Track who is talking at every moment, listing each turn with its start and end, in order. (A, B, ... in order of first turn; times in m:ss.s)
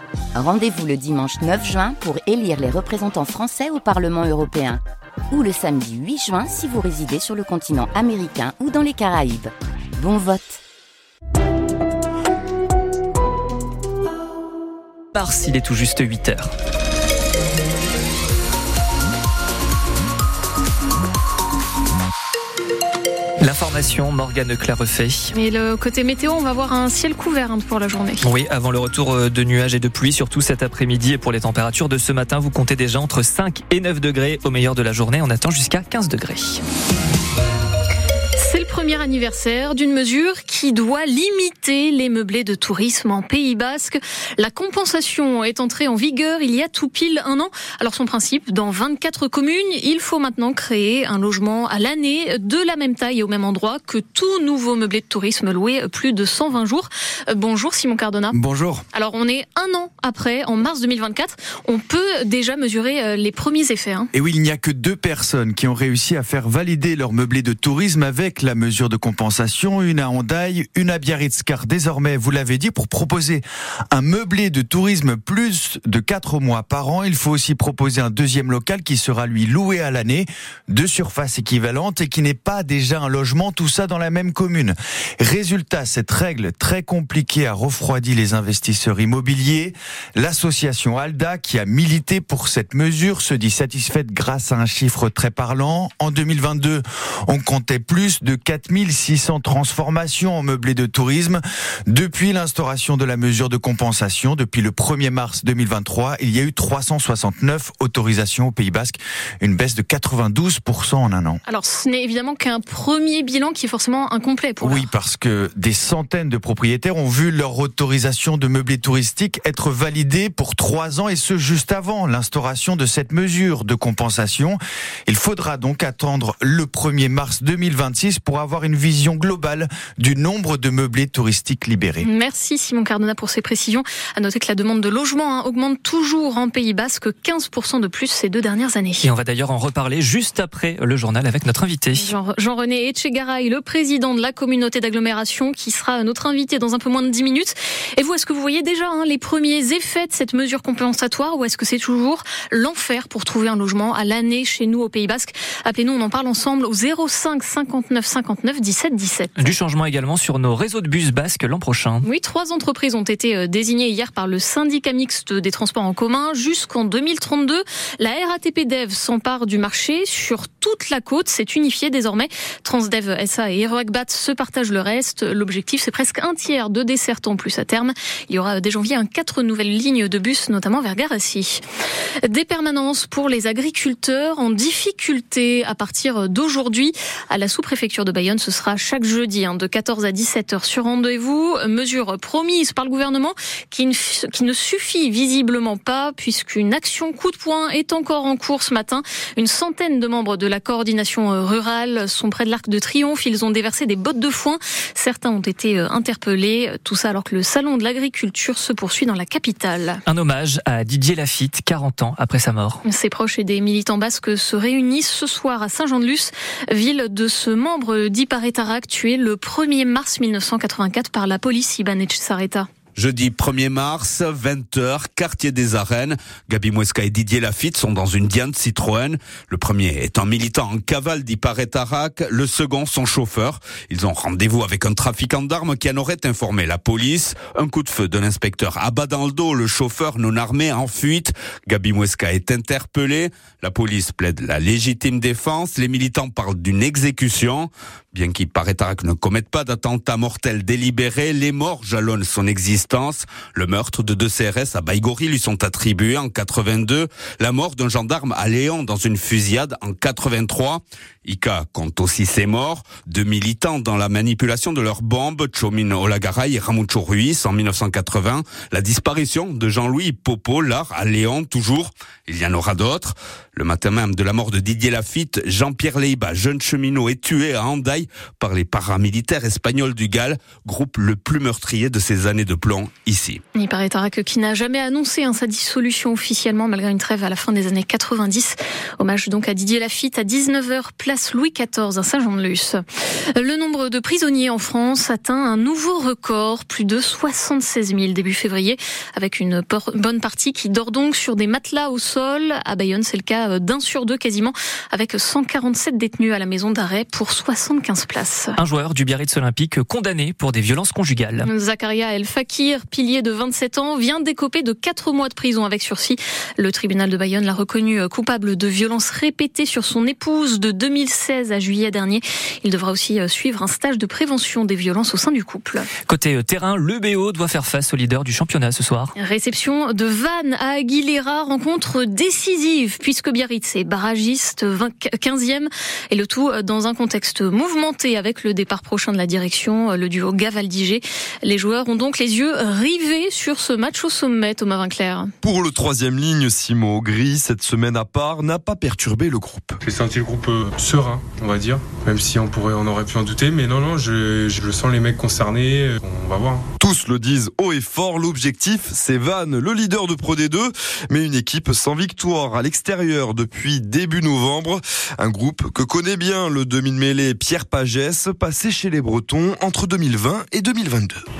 0:00.4-0:10.6 A
0:15.1-0:16.5 B
0:23.4-0:25.3 B
0:25.3-0:28.3 C
0:28.2-0:36.6 B
0:38.4-0:58.4 C
0:58.3-0:58.8 D
0:58.9-1:04.1 C
1:04.1-1:51.4 D
1:51.5-1:54.9 C
1:54.6-2:12.1 D
2:12.0-2:19.1 C
2:19.0-2:22.1 B
2:22.0-2:39.5 C
2:39.4-2:42.1 B
2:42.0-3:01.6 C
3:02.2-3:30.0 C
3:30.1-3:32.8 B
3:32.8-3:42.7 C
3:43.0-4:43.4 E
4:43.6-4:52.8 C
4:53.4-5:08.6 C
5:08.6-5:11.5 B
5:11.5-5:25.9 C
5:26.1-5:29.1 B
5:29.2-5:45.3 C
5:45.4-5:49.8 F
5:49.8-5:56.7 G
5:56.8-6:11.2 F